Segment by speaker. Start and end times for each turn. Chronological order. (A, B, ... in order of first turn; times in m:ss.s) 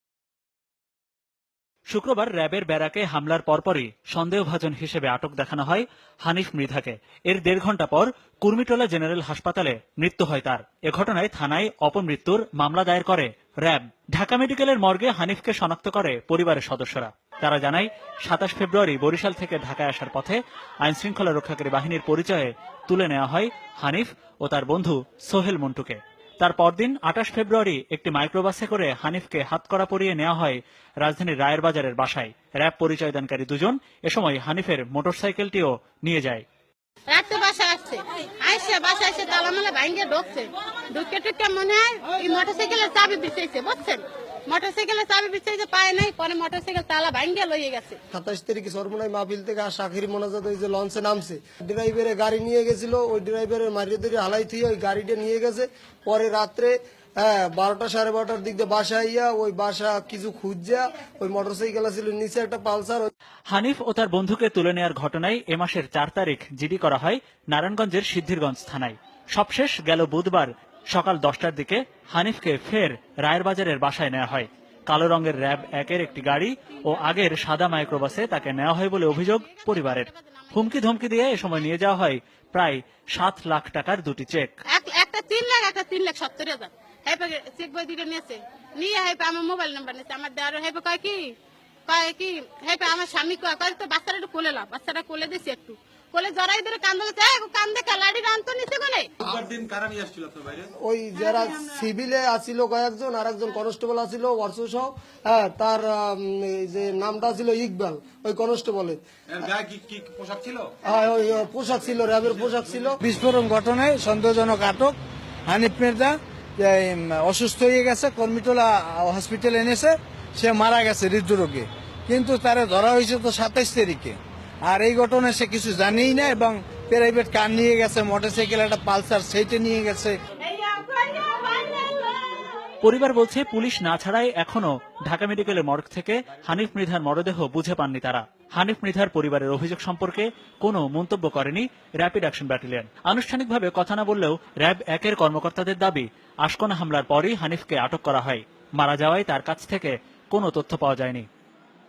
0:01.9-0:36.4 A
0:37.1-0:48.0 B
0:48.1-1:03.1 C
1:03.5-1:24.5 A
1:19.0-1:20.7 B
1:24.7-1:31.3 B
1:31.9-1:39.1 B
1:39.3-1:40.7 D
1:40.8-1:49.0 C
1:49.3-1:50.7 D
1:50.8-1:53.0 C
1:53.0-1:55.0 E
1:55.5-2:10.1 E
2:10.5-2:12.2 B
2:12.8-2:31.2 A